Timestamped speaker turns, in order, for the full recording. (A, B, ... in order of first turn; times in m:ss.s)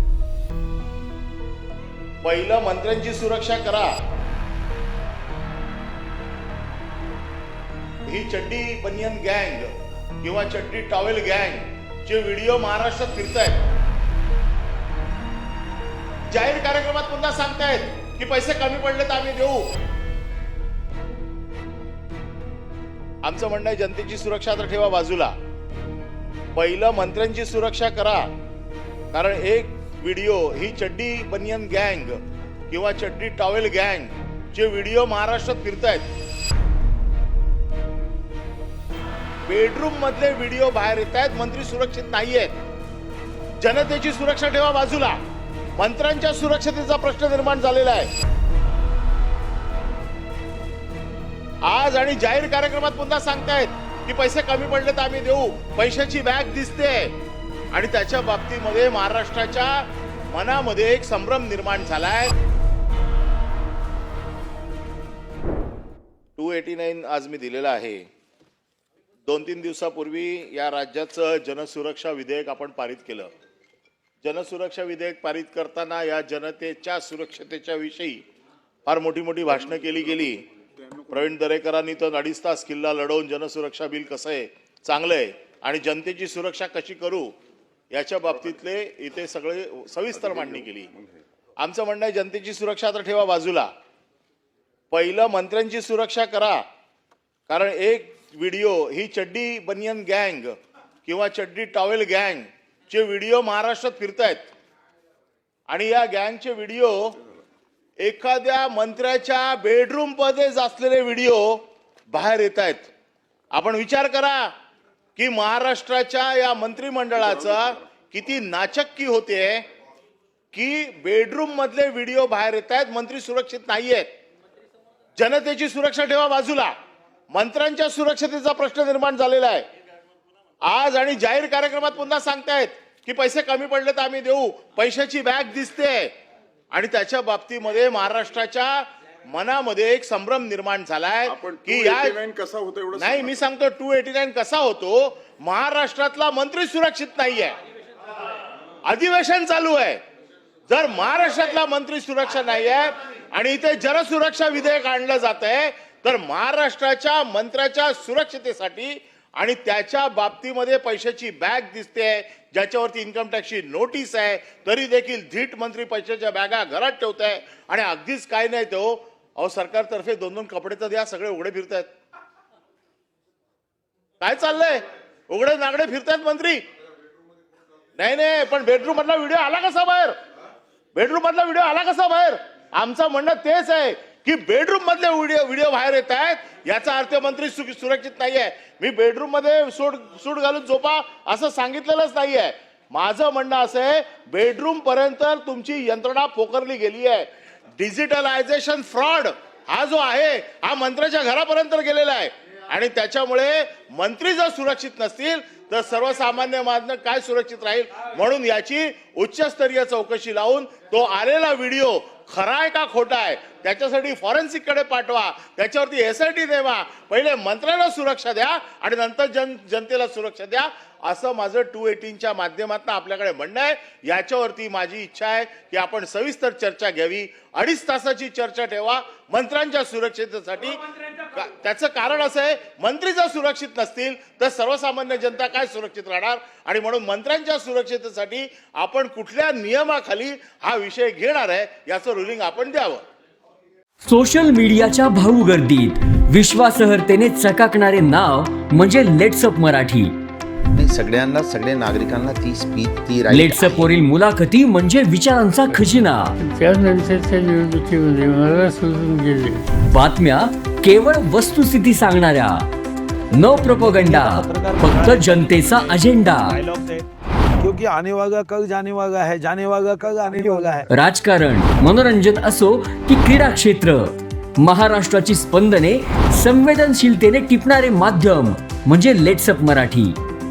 0:02.2-0:03.9 A
0:08.1-0:09.7 A
0:10.2-0:13.6 A
0:16.3-0:19.7 A
0:23.2-0:25.3 A
0:26.6-0:28.3 A
0:29.1-0:36.1 A
0:39.5-0:42.5 A
0:43.6-0:45.2 A
0:45.8-0:48.1 A
0:51.6-0:57.1 A
0:57.7-1:02.3 A
1:06.4-1:08.0 A
1:09.3-1:13.3 A
1:14.2-1:18.2 A
1:18.9-1:20.4 A
1:19.8-1:20.2 B
1:21.1-1:27.3 A
1:27.9-1:30.9 A
1:30.3-1:30.7 B
1:31.6-1:33.7 A
1:34.9-1:36.6 A
1:37.5-1:44.5 A
1:45.7-1:47.1 A
1:48.0-1:51.6 A
1:52.1-1:52.9 A
1:53.5-1:54.5 A
1:55.2-1:59.6 A
2:00.5-2:04.1 A
2:05.2-2:06.7 A
2:07.3-2:09.6 A
2:10.7-2:16.1 A
2:16.7-2:22.2 A
2:21.3-2:23.4 B
2:22.9-2:27.6 A
2:28.8-2:30.0 A
2:30.7-2:51.9 A
2:54.2-2:56.6 A
2:58.0-3:00.2 A
3:01.0-3:17.3 A
3:17.8-4:03.0 A
4:04.0-4:10.1 C
4:10.8-4:13.9 D
4:13.3-4:16.3 C
4:16.4-4:19.6 E
4:19.9-4:22.6 C
4:23.3-4:26.6 C
4:23.4-4:27.0 F
4:27.6-4:30.9 F
4:30.9-4:34.1 C
4:34.6-4:40.2 C